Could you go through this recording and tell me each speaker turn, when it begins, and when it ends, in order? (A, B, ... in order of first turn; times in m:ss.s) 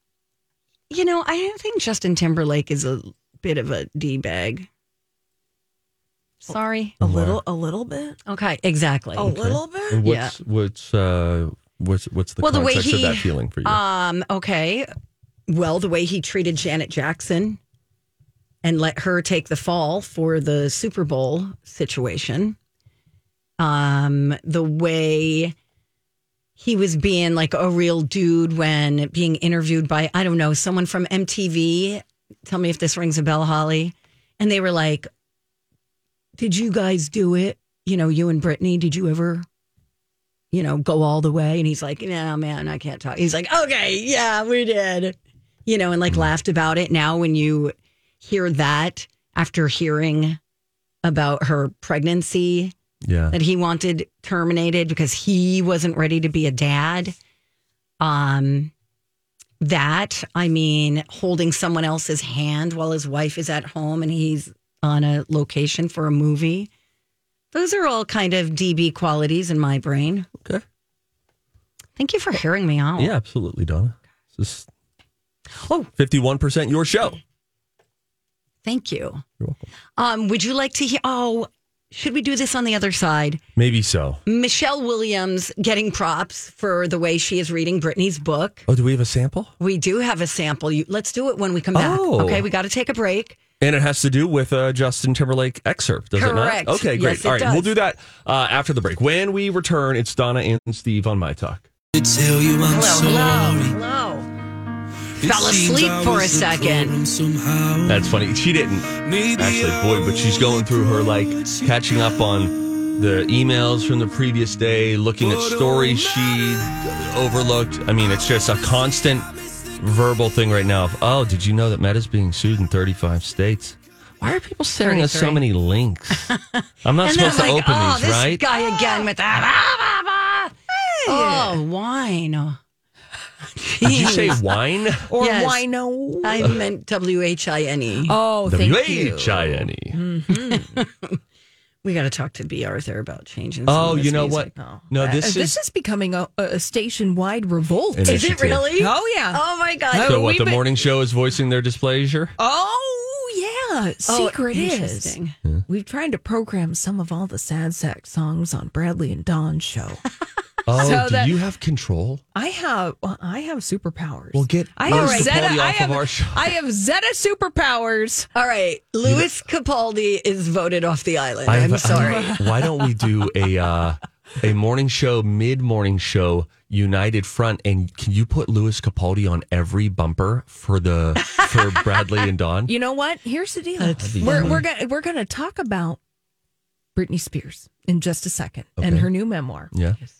0:00.9-0:04.7 A
0:06.4-0:07.0 A
0:06.5-0:08.2 B
0:07.0-0:07.4 C
0:08.3-0:09.3 A
0:09.2-0:10.0 B
0:09.2-0:13.8 C
0:10.0-0:10.4 A
0:12.4-0:14.9 A
0:15.5-0:17.6 A
0:18.6-0:22.6 A
0:23.6-0:25.5 A
0:26.6-0:35.1 A
0:36.4-0:39.4 A
0:40.5-0:50.4 A
0:51.0-0:52.7 A
0:53.0-0:53.4 C
0:53.3-0:57.2 A
0:58.0-0:58.7 A
0:59.6-1:06.7 A
1:07.5-1:10.3 A
1:12.0-1:13.1 A
1:13.0-1:14.7 C
1:15.6-1:15.9 A
1:16.0-1:17.2 C
1:18.6-1:19.2 A
1:19.4-1:19.6 C
1:20.0-1:23.4 A
1:23.6-1:24.2 C
1:24.2-1:28.6 A
1:28.7-1:29.5 C
1:29.6-1:33.4 A
1:31.7-1:32.4 C
1:33.6-1:41.6 C
1:36.2-1:37.7 A
1:41.9-1:43.7 D
1:42.7-1:44.3 A
1:45.2-1:48.1 D
1:45.2-1:47.0 A
1:47.8-2:08.4 C
1:48.9-1:52.2 D
1:55.2-1:56.6 D
2:04.8-2:05.4 A
2:06.3-2:12.6 A
2:10.7-2:11.6 B
2:13.6-2:14.4 A
2:13.8-2:15.1 C
2:15.1-2:16.6 B
2:15.2-2:15.6 A
2:16.2-2:18.2 A
2:18.0-2:20.7 B
2:18.4-2:20.0 C
2:20.3-2:21.2 A
2:21.8-2:24.5 A
2:23.6-2:25.6 C
2:24.6-2:30.6 B
2:27.9-2:28.7 C
2:28.0-2:30.2 A
2:30.0-2:32.3 C
2:32.4-2:35.2 B
2:34.0-2:35.3 A
2:35.7-2:40.0 B
2:40.7-2:42.2 C
2:40.7-2:41.4 B
2:42.3-2:48.3 B
2:44.3-2:46.6 C
2:44.9-2:45.4 A
2:48.3-2:52.4 A
2:49.0-2:49.3 C
2:51.4-3:02.7 C
3:02.7-3:06.0 B
3:03.8-3:04.6 A
3:04.0-3:04.6 C
3:06.9-3:09.7 B
3:08.8-3:09.1 C
3:09.7-3:10.0 C